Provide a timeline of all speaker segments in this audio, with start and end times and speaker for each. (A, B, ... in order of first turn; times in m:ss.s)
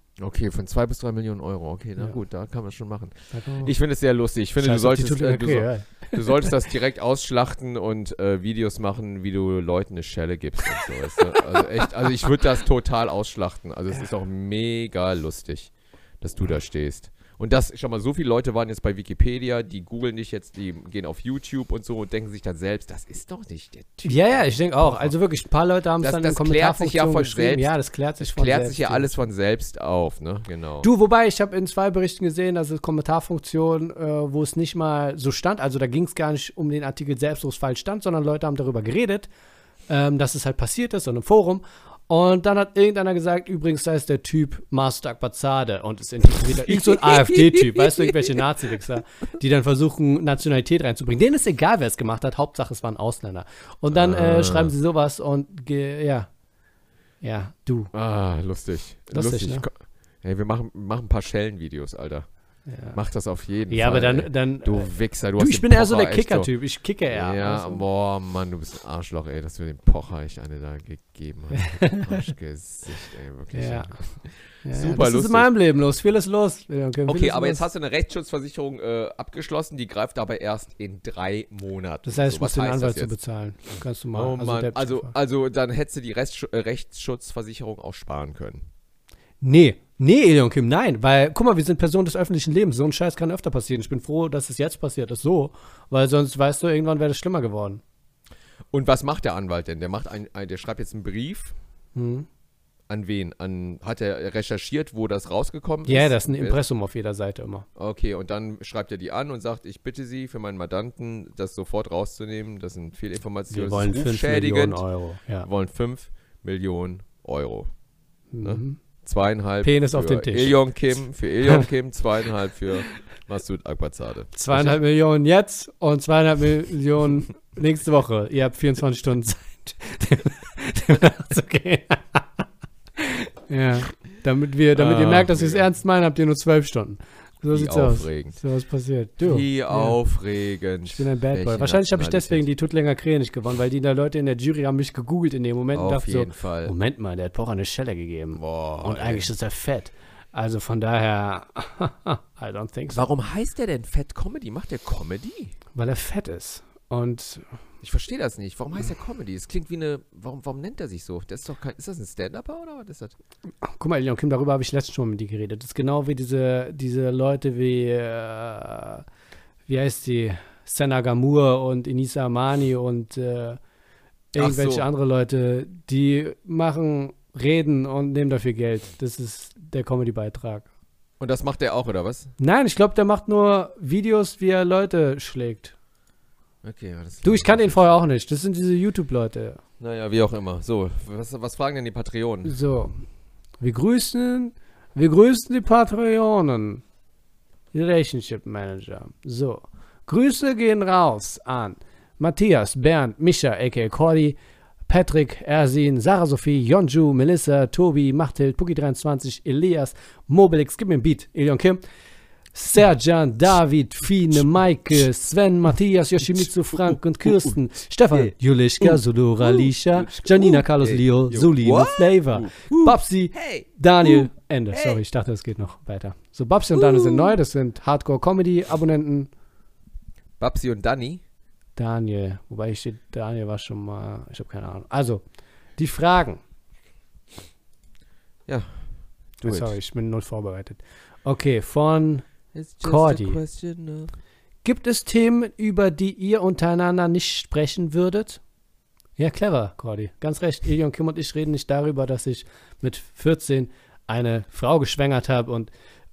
0:00.2-0:25.1 A
0:03.3-0:03.7 B
0:04.6-0:06.5 B
0:24.0-0:29.1 B
0:26.0-0:30.9 A
0:30.8-0:39.3 B
0:39.9-0:56.3 B
0:46.7-0:48.1 A
0:53.9-0:54.7 A
0:57.2-0:57.9 B
0:57.9-1:02.3 A
0:59.1-0:59.6 B
1:02.7-1:03.0 B
1:02.9-1:06.5 A
1:03.7-1:07.8 B
1:07.1-1:15.5 A
1:11.6-1:12.2 B
1:13.5-1:14.0 B
1:14.6-1:17.6 B
1:17.1-1:23.1 A
1:22.0-1:25.1 B
1:24.1-1:28.7 A
1:29.4-1:37.8 B
1:38.7-1:41.5 A
1:41.9-1:42.3 B
1:42.9-1:46.6 A
1:45.8-1:47.6 B
1:47.8-1:54.8 A
1:53.5-1:55.5 B
1:55.4-1:57.7 A
1:58.3-1:58.8 B
1:58.4-2:04.8 A
1:59.6-2:00.7 B
2:04.3-2:12.3 B
2:13.0-2:20.0 B
2:14.7-2:15.6 A
2:17.5-2:18.4 A
2:19.2-2:22.4 A
2:20.8-2:33.1 B
2:25.7-2:26.7 A
2:28.4-2:29.3 A
2:32.9-2:35.6 A
2:35.7-2:37.4 B
2:37.8-2:43.2 A
2:43.6-2:49.0 B
2:49.7-2:53.6 B
2:54.3-3:00.7 B
2:54.4-2:54.8 A
3:01.2-3:02.3 A
3:02.4-3:05.7 B
3:06.6-3:07.9 A
3:07.2-3:09.6 B
3:09.8-3:12.6 A
3:12.4-3:13.0 B
3:13.6-3:16.8 B
3:17.7-3:31.8 B
3:32.5-3:49.3 B
3:36.3-3:37.5 A
3:38.1-3:45.0 A
3:46.7-3:47.3 A
3:50.4-3:51.2 A
3:51.8-3:55.2 B
3:55.8-3:56.4 B
3:58.5-3:59.7 A
3:59.4-4:02.2 B
4:02.5-4:04.1 A
4:02.8-4:03.4 B
4:04.6-4:08.4 B
4:09.2-4:15.7 B